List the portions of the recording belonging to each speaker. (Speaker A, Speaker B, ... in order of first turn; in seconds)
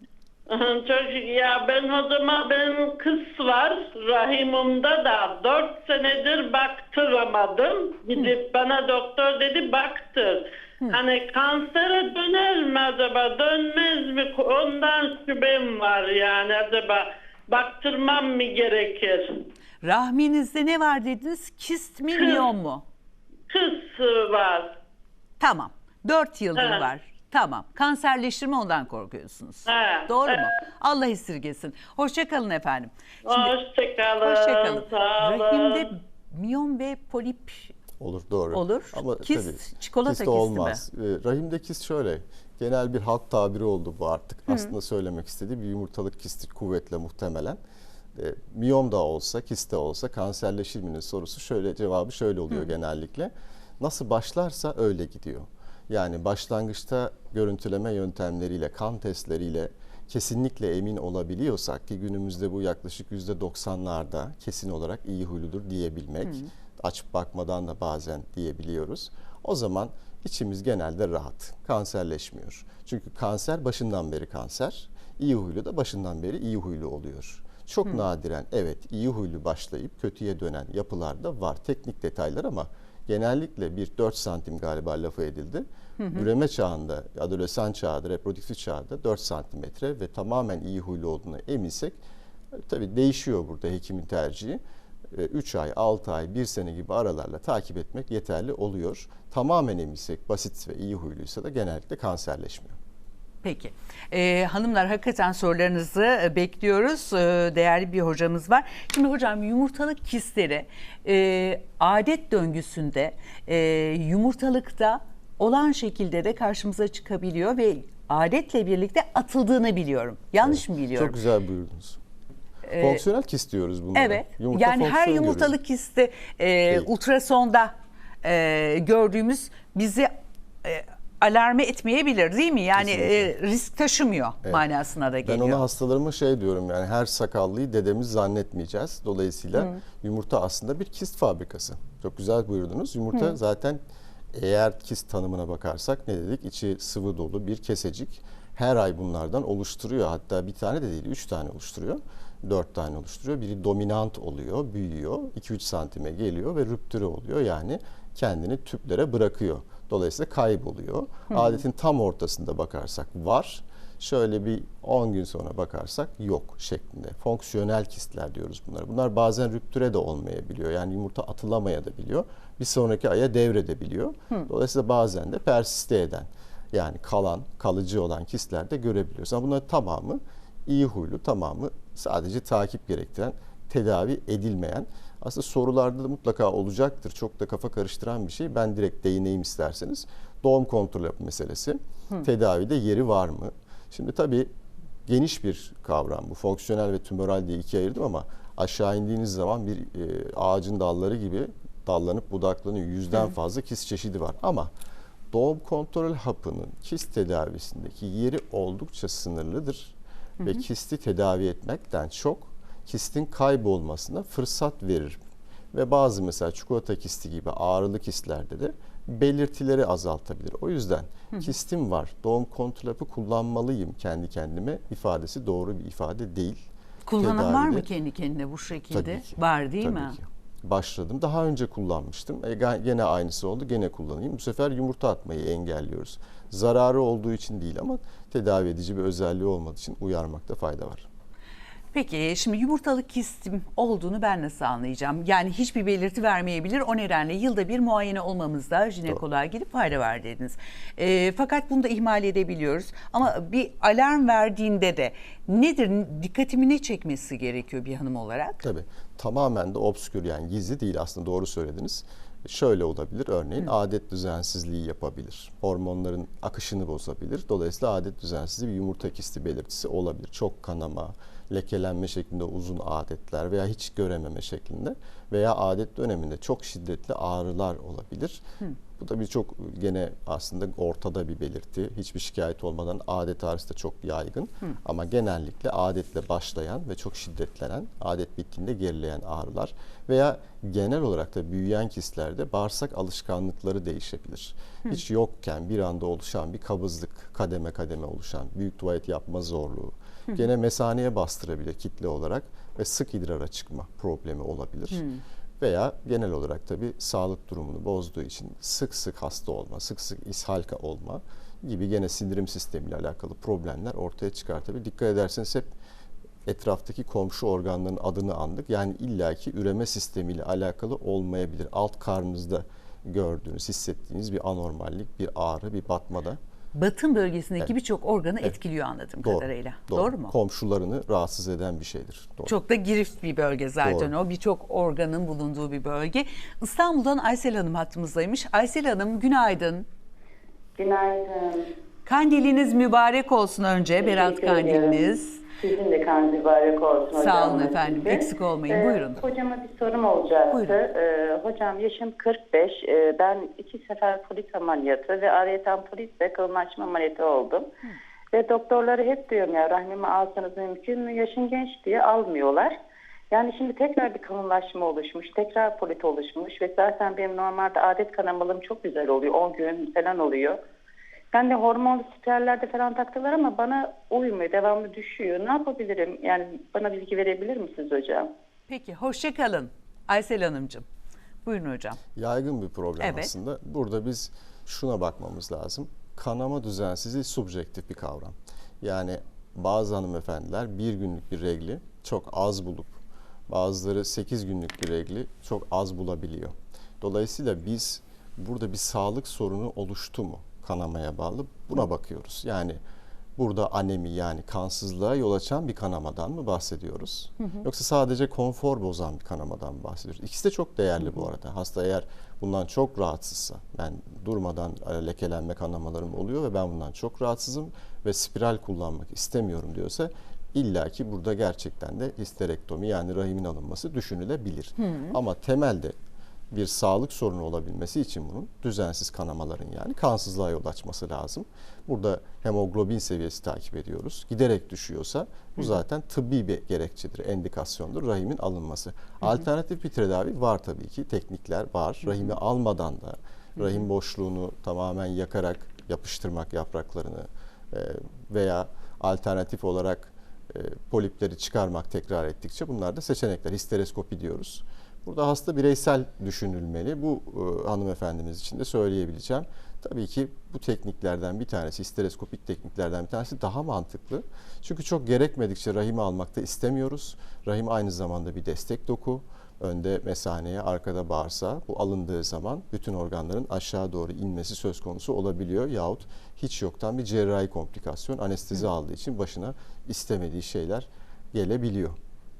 Speaker A: 0.5-19.4, 22.2-22.4, 23.5-24.7, 26.6-26.8, 29.7-30.4, 33.2-35.9
Speaker B: 19.8-22.8, 25.4-33.5, 34.2-37.7, 38.5-40.8, 86.0-86.3, 103.4-121.2, 122.7-123.0, 123.9-130.1, 130.6-135.6, 139.5-139.8, 227.1-230.2, 241.9-258.6, 304.9-305.2, 326.7-330.3, 332.4-339.9, 342.0-345.4, 347.1-349.2, 350.5-350.8, 378.7-380.8, 381.4-382.0, 383.0-383.3, 424.8-425.1
Speaker C: 38.0-47.6, 48.1-92.0, 92.5-94.6, 95.1-102.8, 120.4-122.0, 122.8-125.5, 132.8-133.3, 135.2-143.8, 144.3-194.5, 195.1-204.7, 205.3-215.2, 215.7-226.7, 227.2-227.8, 228.9-241.1, 258.6-278.4, 279.0-305.1, 305.6-315.7, 316.4-326.4, 329.2-332.5, 333.8-334.1, 382.1-393.0, 393.5-402.8, 403.4-425.9, 426.5-482.0
Speaker D: 340.8-341.7, 344.0-357.7, 358.3-362.8, 363.3-370.6, 371.3-378.3